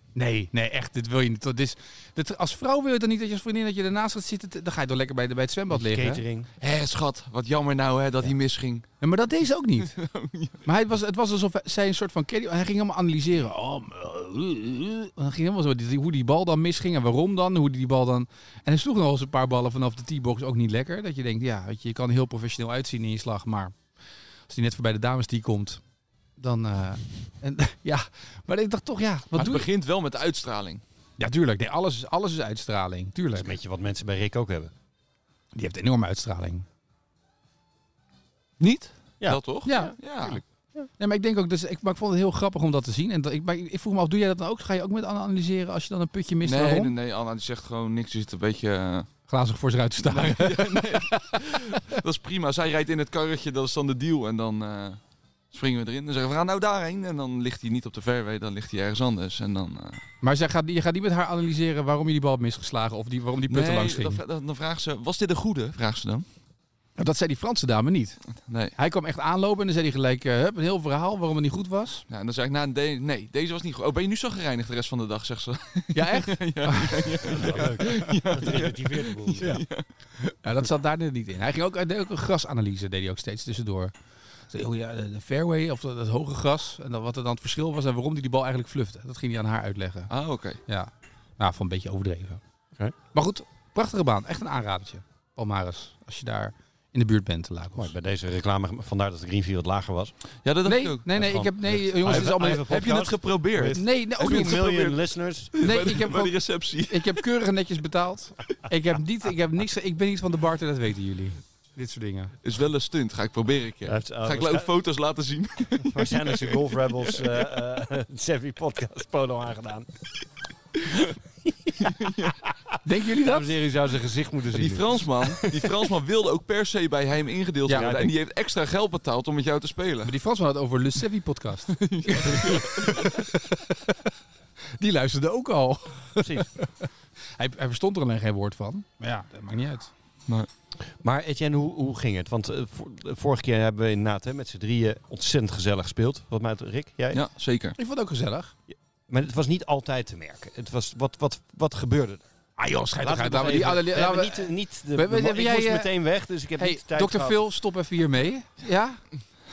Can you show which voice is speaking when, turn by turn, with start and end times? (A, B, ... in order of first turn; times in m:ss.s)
0:00.2-0:06.2 A
0:05.7-0:06.5 B
0:06.6-0:08.9 C
0:09.0-0:10.0 A
0:09.8-0:10.6 C
0:10.6-0:23.8 A
0:24.5-0:25.8 A
0:26.4-0:29.7 A
0:29.3-0:30.8 C
0:31.2-0:33.5 A
0:33.4-0:34.7 B
0:35.5-0:36.7 A
0:38.6-0:40.4 C
0:39.2-0:40.9 B
0:39.6-0:40.0 A
0:41.0-0:46.9 A
0:46.4-0:49.1 C
0:49.3-0:51.4 A
0:50.0-0:55.0 C
0:55.5-1:00.0 C
1:00.2-1:04.2 A
1:03.5-1:06.3 C
1:07.0-1:08.2 A
1:08.5-1:08.7 C
1:08.8-1:12.0 A
1:12.1-1:19.9 C
1:15.9-1:17.9 A
1:17.3-1:19.5 B
1:19.4-1:23.9 A
1:24.5-1:30.1 A
1:30.1-1:30.6 C
1:30.7-1:32.4 A
1:33.1-1:37.9 A
1:37.8-1:40.1 B
1:40.4-1:41.1 C
1:40.6-1:42.8 A
1:41.1-1:45.7 B
1:42.1-1:45.0 C
1:43.7-1:44.9 A
1:45.6-1:47.3 C
1:45.6-1:52.4 A
1:52.4-1:56.8 C
1:53.9-1:54.7 B
1:55.8-1:59.9 B
2:01.8-2:02.4 C
2:02.8-2:03.6 A
2:03.2-2:05.7 B
2:04.5-2:10.1 C
2:07.7-2:08.0 A
2:07.7-2:08.1 B
2:10.0-2:14.1 A
2:11.7-2:13.2 C
2:14.8-2:19.9 A
2:16.2-2:16.5 B
2:20.8-2:27.2 B
2:27.1-2:27.8 C
2:27.8-2:28.5 A
2:28.7-2:32.2 B
2:32.6-2:35.9 A
2:33.0-2:37.4 B
2:36.6-2:39.1 A